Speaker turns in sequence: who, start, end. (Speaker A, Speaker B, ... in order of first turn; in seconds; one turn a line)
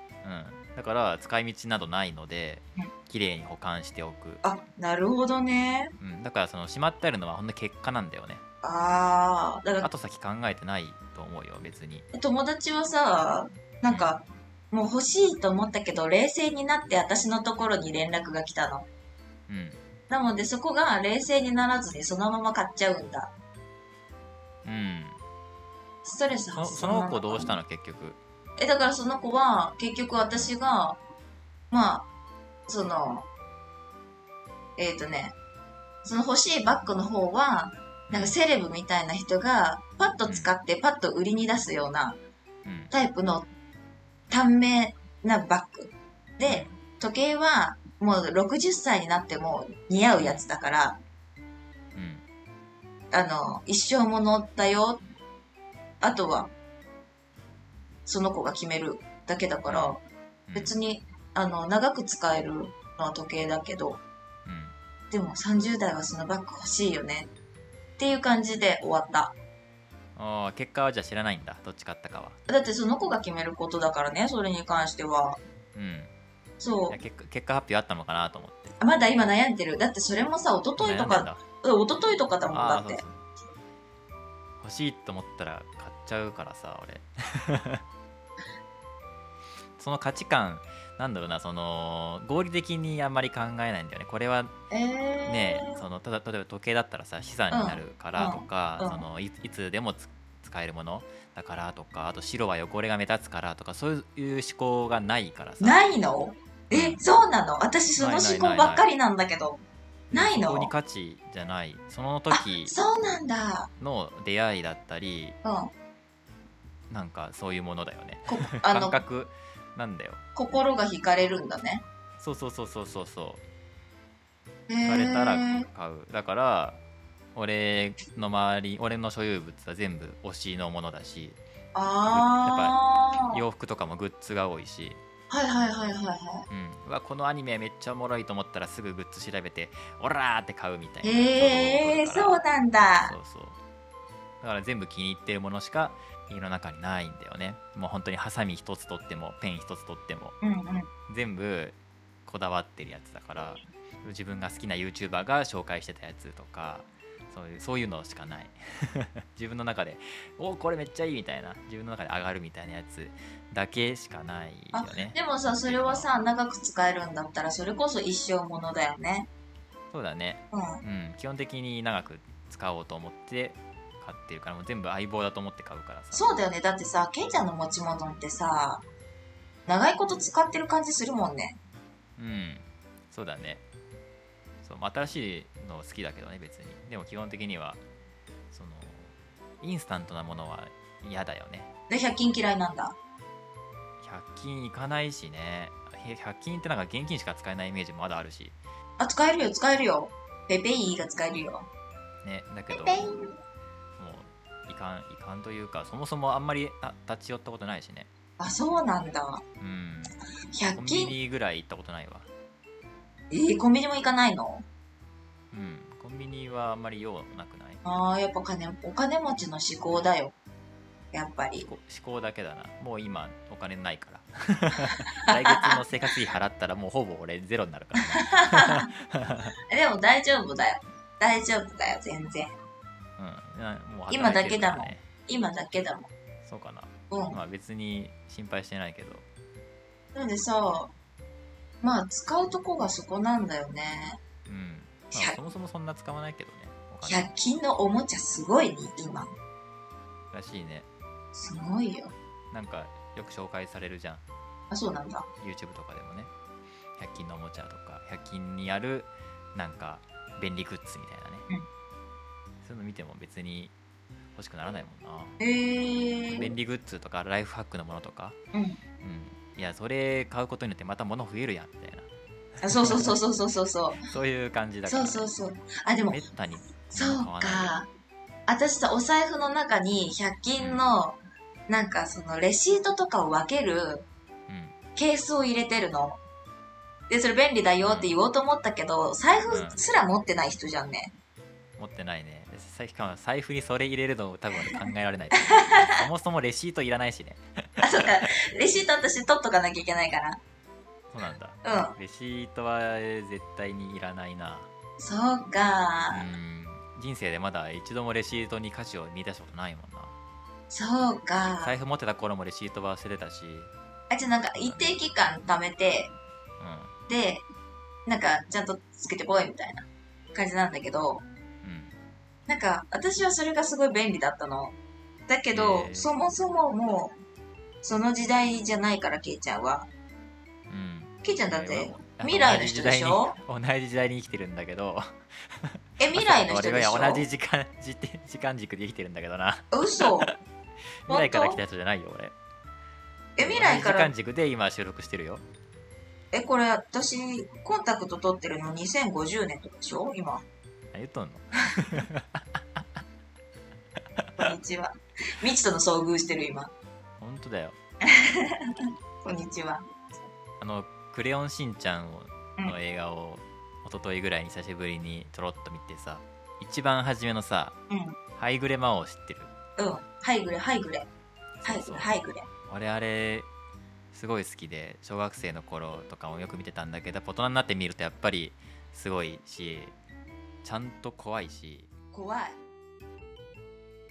Speaker A: 0.2-4.4
Speaker B: 4.4-5.9
Speaker A: 6.0-8.4
Speaker B: 8.6-9.9
Speaker A: 9.8-12.1
Speaker B: 12.1-18.9
Speaker A: 13.8-14.2
Speaker A: 19.5-19.8
Speaker B: 20.1-23.3
Speaker A: 24.6-25.2
Speaker B: 26.0-27.5
Speaker A: 26.5-28.2
Speaker B: 28.6-31.0
Speaker B: 31.7-32.1
Speaker B: 32.7-33.3
Speaker B: 34.8-35.3
Speaker B: 36.0-42.2
Speaker A: 38.1-38.4
Speaker A: 40.2-40.5
Speaker A: 42.6-42.9
Speaker B: 42.9-43.5
Speaker B: 44.3-51.0
Speaker A: 50.1-50.5
Speaker A: 51.9-52.2
Speaker B: 53.1-55.0
Speaker B: 56.0-56.5
Speaker B: 58.0-60.0
Speaker A: 59.7-60.7
Speaker B: 60.5-64.0
Speaker A: 64.4-64.7
Speaker B: 65.1-67.3
Speaker B: 68.0-69.3
Speaker A: 70.2-72.4
Speaker B: 72.5-75.4
Speaker A: 75.7-76.1
Speaker B: 76.6-77.0
Speaker A: 76.9-78.8
Speaker B: 78.8-83.0
Speaker A: 80.8-81.4
Speaker A: 82.5-83.2
Speaker A: 84.6-87.8
Speaker A: 89.8-94.5
Speaker B: 94.7-95.8
Speaker A: 95.2-105.8
Speaker B: 97.5-99.0
Speaker B: 105.6-109.6
Speaker A: 106.7-107.0
Speaker A: 108.0-108.9
Speaker A: 110.1-112.8
Speaker B: 110.1-110.7
Speaker B: 112.3-113.7
Speaker A: 113.8-115.4
Speaker B: 115.4-115.7
Speaker A: 116.9-120.2
Speaker B: 118.3-119.0
Speaker B: 120.3-121.8
Speaker A: 122.2-123.4
Speaker B: 124.7-125.7
Speaker A: 124.8-126.8
Speaker A: 127.3-131.4
Speaker B: 131.7-133.4
Speaker A: 132.1-135.0
Speaker B: 135.3-136.4
Speaker A: 136.5-142.4
Speaker B: 141.0-143.1
Speaker A: 143.0-143.6
Speaker A: 144.4-150.3
Speaker B: 150.4-150.9
Speaker A: 151.1-166.1
Speaker B: 164.7-169.3
Speaker A: 169.9-176.2
Speaker B: 170.5-170.8
Speaker B: 176.1-178.8
Speaker B: 179.7-181.6
Speaker A: 182.2-183.6
Speaker A: 184.6-187.8
Speaker A: 188.5-191.7
Speaker B: 191.9-192.9
Speaker A: 194.0-198.6
Speaker B: 199.0-201.7
Speaker A: 202.2-203.1
Speaker B: 202.7-203.3
Speaker A: 204.0-208.1
Speaker B: 208.4-209.4
Speaker A: 209.6-210.2
Speaker B: 210.5-211.1
Speaker A: 210.7-212.3
Speaker B: 213.3-214.6
Speaker A: 215.5-217.8
Speaker B: 217.8-220.3
Speaker B: 221.1-221.7
Speaker A: 221.6-229.5
Speaker B: 225.2-225.8
Speaker B: 228.1-228.9
Speaker B: 229.7-232.5
Speaker A: 233.2-235.0
Speaker B: 234.1-236.1
Speaker A: 236.4-239.2
Speaker B: 237.1-237.4
Speaker B: 240.1-240.9
Speaker B: 241.8-244.2
Speaker A: 244.4-247.3
Speaker B: 245.1-245.4
Speaker B: 247.0-249.3
Speaker A: 250.3-250.9
Speaker B: 251.3-252.1
Speaker A: 252.5-254.2
Speaker B: 254.7-255.3
Speaker A: 255.4-256.3
Speaker A: 257.0-261.5
Speaker A: 262.6-263.7
Speaker A: 264.3-265.4
Speaker B: 265.4-266.5
Speaker A: 266.4-268.4
Speaker B: 268.5-268.8
Speaker A: 269.0-272.1
Speaker A: 272.6-273.2
Speaker B: 272.6-274.0
Speaker A: 274.1-275.3
Speaker B: 274.9-276.2
Speaker A: 276.1-277.8
Speaker B: 276.9-277.9
Speaker B: 278.5-281.2
Speaker B: 281.7-284.1
Speaker A: 284.5-284.7
Speaker B: 284.9-286.2
Speaker B: 287.1-291.1
Speaker A: 287.8-288.1
Speaker A: 289.5-289.8
Speaker A: 291.8-298.3
Speaker B: 295.4-295.9
Speaker B: 297.8-300.4
Speaker A: 301.1-304.7
Speaker B: 301.6-301.9
Speaker B: 305.0-306.2
Speaker A: 306.1-310.1
Speaker B: 310.7-311.7
Speaker A: 311.6-313.7
Speaker B: 314.1-316.1
Speaker A: 314.5-315.0
Speaker A: 316.6-316.9
Speaker B: 317.1-317.4
Speaker B: 318.1-321.2
Speaker A: 321.6-321.9
Speaker B: 322.5-324.7
Speaker B: 325.3-327.1
Speaker A: 325.5-326.1
Speaker B: 327.8-329.9
Speaker A: 330.7-340.4
Speaker B: 331.2-333.3
Speaker B: 336.0-337.2
Speaker B: 339.7-340.3
Speaker A: 341.1-342.3
Speaker B: 341.1-341.6
Speaker B: 343.4-344.1
Speaker A: 343.4-345.4
Speaker B: 346.3-350.4
Speaker A: 350.9-353.0
Speaker A: 354.0-354.5
Speaker B: 354.4-356.7
Speaker A: 357.2-357.8
Speaker B: 358.0-359.8
Speaker A: 360.6-367.8
Speaker B: 367.9-368.2
Speaker A: 368.4-369.5
Speaker B: 369.8-371.1
Speaker A: 371.6-372.1
Speaker B: 371.6-372.5
Speaker A: 372.7-373.5
Speaker A: 374.1-379.9
Speaker A: 380.6-381.9
Speaker B: 382.1-382.6